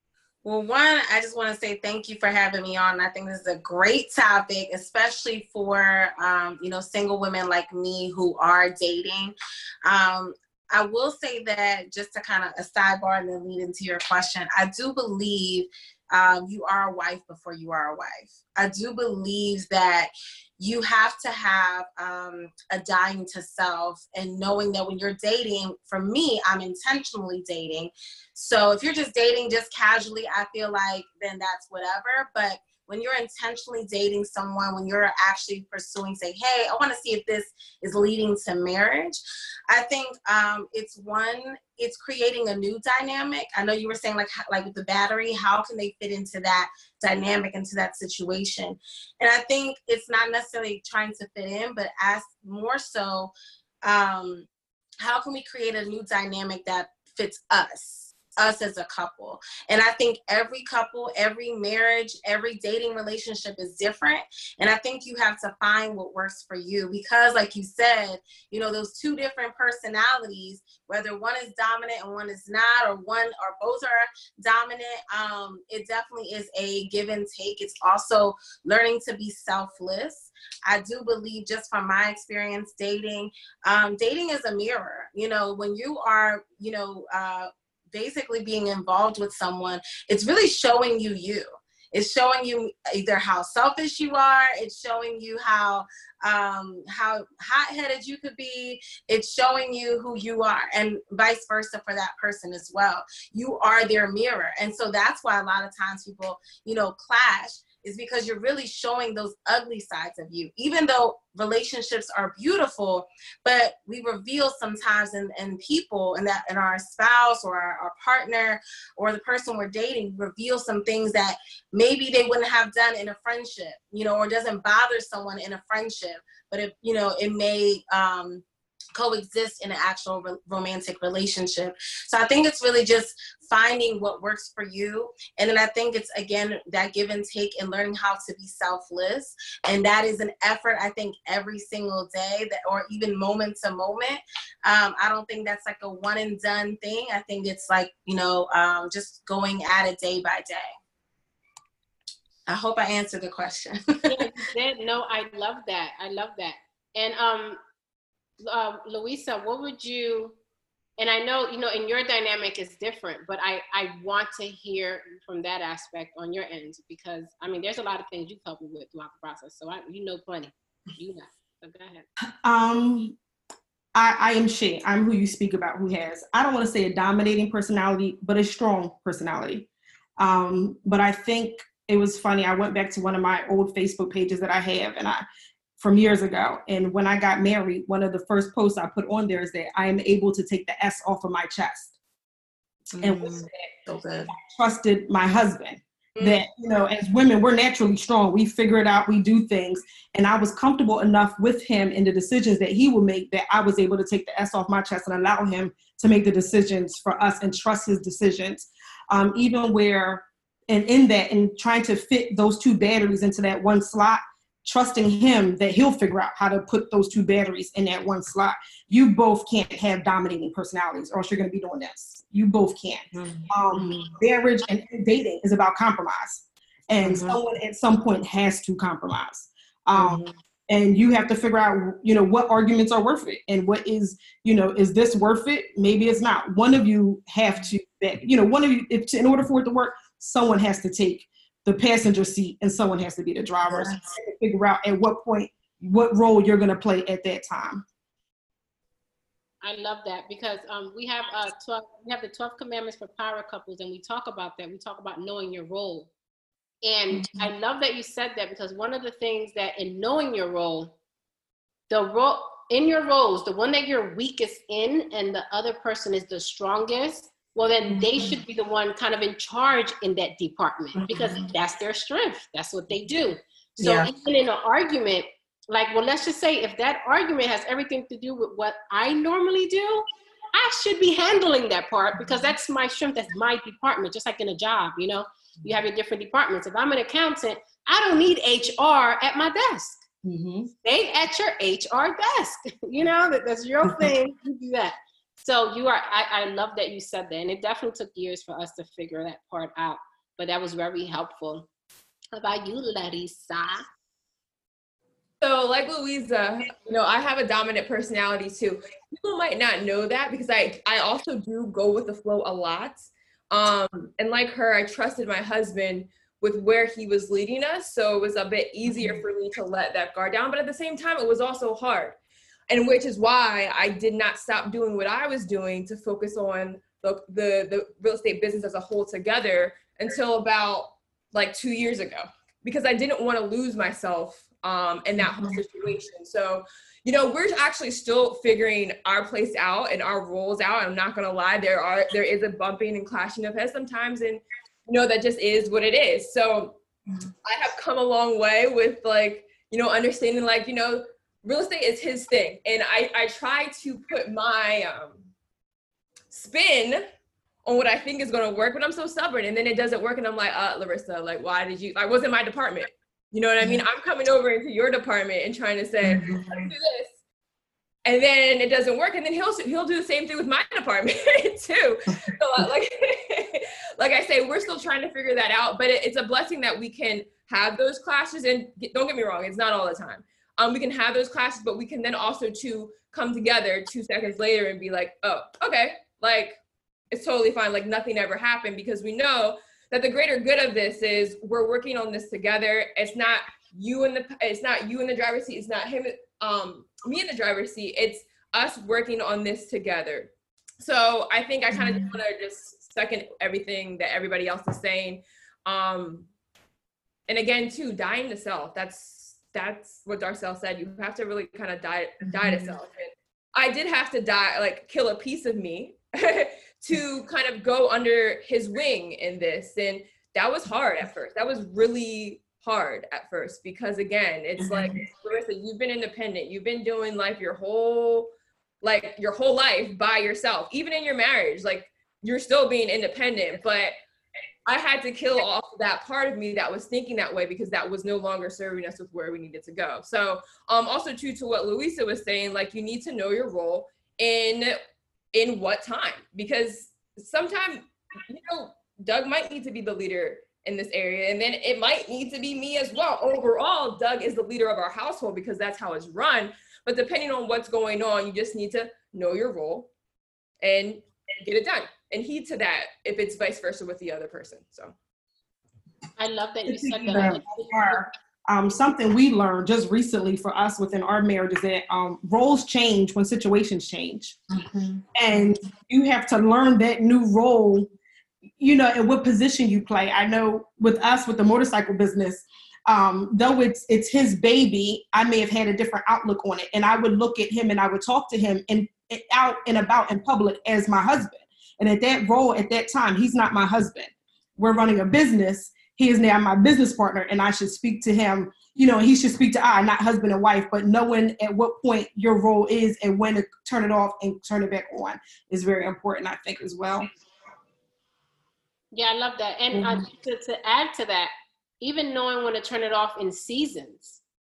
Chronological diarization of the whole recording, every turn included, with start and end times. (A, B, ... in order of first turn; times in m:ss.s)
0:00.4-0:53.3 A
0:53.8-0:54.5 A
0:55.0-2:08.4 A
2:08.9-2:30.7 A
2:32.5-2:34.2 A
2:34.0-2:37.6 B
2:38.4-2:40.4 B
2:41.0-2:52.0 B
2:52.4-2:53.2 C
2:53.9-2:59.7 C
3:00.2-3:05.2 C
3:05.8-3:12.0 C
3:12.9-3:14.3 A
3:13.0-3:13.7 C
3:14.3-4:07.8 C
3:43.1-3:44.1 A
3:47.0-3:47.4 A
3:49.9-3:50.3 A
4:03.7-4:04.0 A
4:09.6-4:16.1 B
4:16.8-4:21.0 B
4:21.9-4:50.0 B
4:27.9-4:28.3 A
4:31.0-4:31.5 A
4:33.8-4:34.1 A
4:50.2-4:50.7 C
4:50.8-5:01.7 B
5:02.3-5:03.8 B
5:05.4-5:22.2 D
5:22.7-5:46.8 D
5:47.4-5:55.3 D
5:56.3-5:57.0 D
5:57.6-6:07.2 D
6:06.0-6:06.7 A
6:08.0-6:26.6 D
6:27.1-6:46.3 D
6:47.3-7:08.3 D
7:08.8-7:13.9 D
7:14.6-7:24.8 D
7:25.3-7:39.9 D
7:40.6-7:44.9 D
7:46.2-7:47.9 B
7:46.6-7:54.4 C
7:47.1-7:47.4 A
7:54.5-7:55.4 A
7:55.1-7:57.9 C
7:58.6-8:27.1 C
8:28.9-8:34.2 B
8:29.7-8:30.0 A